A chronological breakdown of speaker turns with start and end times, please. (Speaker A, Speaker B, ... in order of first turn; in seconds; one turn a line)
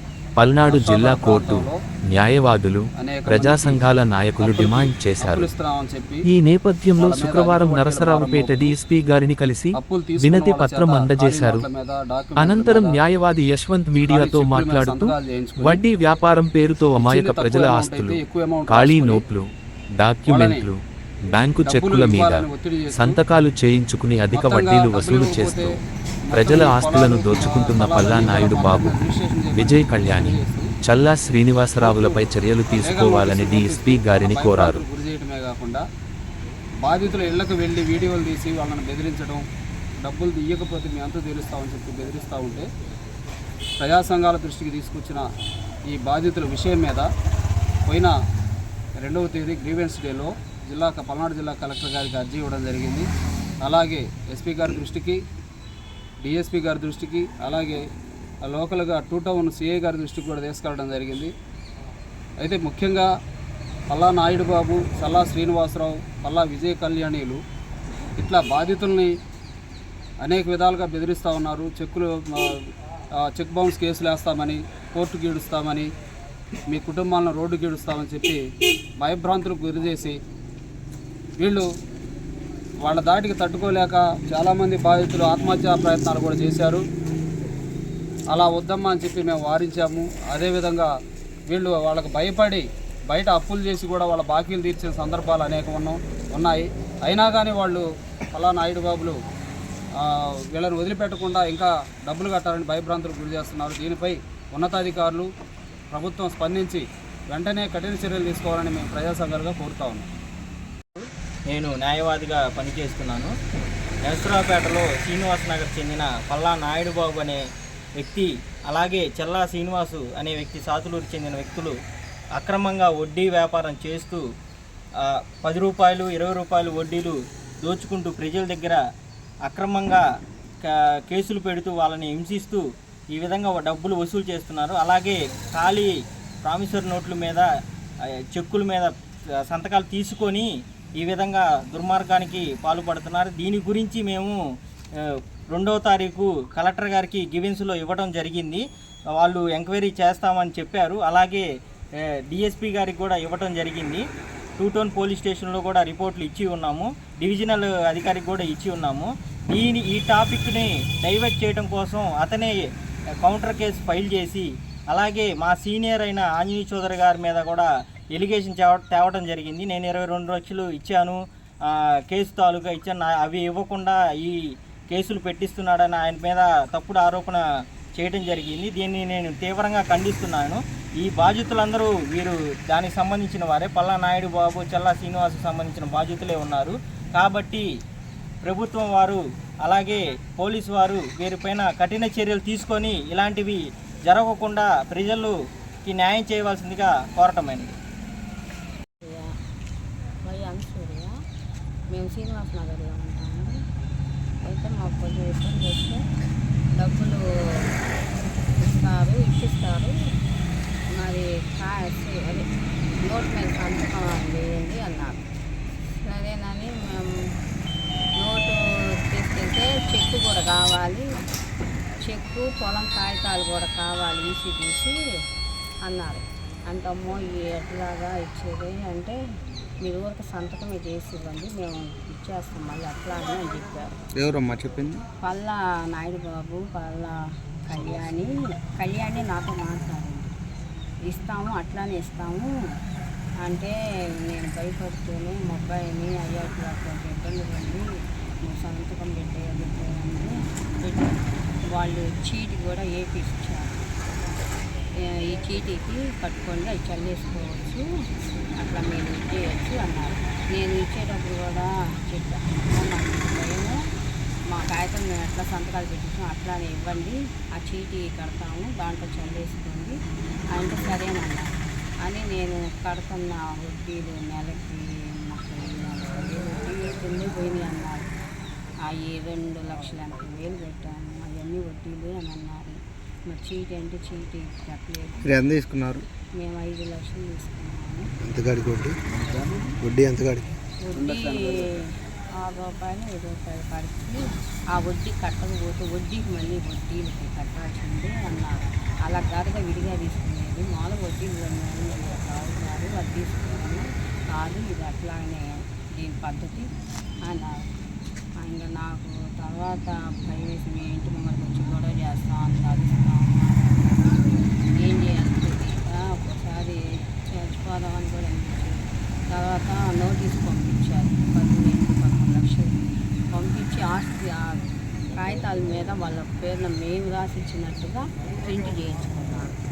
Speaker A: 0.4-5.5
Speaker B: 0.7-1.8
Speaker B: 3.0-3.9
Speaker B: 4.4-6.3
Speaker A: 6.2-11.7
Speaker B: 7.0-8.8
Speaker B: 9.8-13.0
Speaker A: 12.4-19.5
Speaker B: 14.0-15.8
Speaker B: 17.0-19.3
Speaker A: 20.0-25.8
Speaker B: 20.3-20.7
Speaker B: 21.6-23.2
Speaker B: 24.3-25.8
Speaker B: 26.3-30.7
Speaker A: 26.3-29.0
Speaker A: 29.5-34.8
Speaker B: 31.8-35.8
Speaker B: 36.8-39.5
Speaker B: 40.0-42.7
Speaker B: 43.8-45.3
Speaker B: 45.9-47.1
Speaker B: 47.9-48.1
Speaker B: 49.0-53.1
Speaker B: 53.6-55.2
Speaker B: 56.2-57.9
Speaker B: 58.4-61.3
Speaker B: 62.4-63.1
Speaker B: 63.9-67.4
Speaker B: 68.2-69.1
Speaker B: 70.2-72.6
Speaker B: 73.2-75.9
Speaker B: 76.7-78.4
Speaker B: 79.0-80.2
Speaker B: 81.4-81.7
Speaker B: 82.8-86.8
Speaker B: 88.3-90.9
Speaker B: 91.5-99.2
Speaker B: 100.0-105.3
Speaker B: 105.9-110.1
Speaker C: 111.0-113.3
Speaker C: 114.0-117.4
Speaker C: 118.0-121.7
Speaker C: 122.4-124.2
Speaker C: 125.0-128.8
Speaker C: 129.5-130.0
Speaker C: 130.6-137.5
Speaker C: 138.3-138.9
Speaker C: 139.4-140.5
Speaker C: 141.0-144.4
Speaker C: 145.0-148.6
Speaker C: 149.2-151.5
Speaker C: 152.3-154.0
Speaker C: 154.6-162.6
Speaker C: 163.2-174.4
Speaker C: 174.9-177.4
Speaker C: 178.0-187.7
Speaker C: 188.4-195.3
Speaker C: 195.8-197.8
Speaker D: 199.1-199.3
Speaker D: 200.2-201.1
Speaker D: 201.9-203.6
Speaker D: 204.4-206.0
Speaker D: 206.8-207.7
Speaker D: 208.6-209.9
Speaker D: 210.9-212.5
Speaker D: 213.0-215.2
Speaker D: 216.0-217.1
Speaker D: 218.2-221.1
Speaker D: 222.0-224.9
Speaker D: 225.8-229.2
Speaker D: 229.8-233.9
Speaker E: 234.2-235.0
Speaker D: 235.2-237.2
Speaker D: 237.7-240.3
Speaker D: 241.1-242.5
Speaker D: 243.4-247.8
Speaker D: 248.4-253.7
Speaker D: 255.0-257.8
Speaker D: 258.6-263.8
Speaker D: 264.5-270.0
Speaker D: 270.5-271.5
Speaker D: 272.0-278.1
Speaker D: 278.9-282.8
Speaker D: 283.3-285.3
Speaker E: 285.2-286.1
Speaker D: 286.4-288.1
Speaker E: 288.2-289.0
Speaker B: 289.1-289.7
Speaker E: 289.8-290.5
Speaker D: 290.9-291.8
Speaker B: 290.9-291.7
Speaker D: 292.4-294.2
Speaker D: 294.7-305.4
Speaker D: 306.0-306.7
Speaker D: 307.3-307.7
Speaker D: 308.4-316.8
Speaker D: 317.3-318.8
Speaker D: 319.3-322.8
Speaker D: 323.3-329.5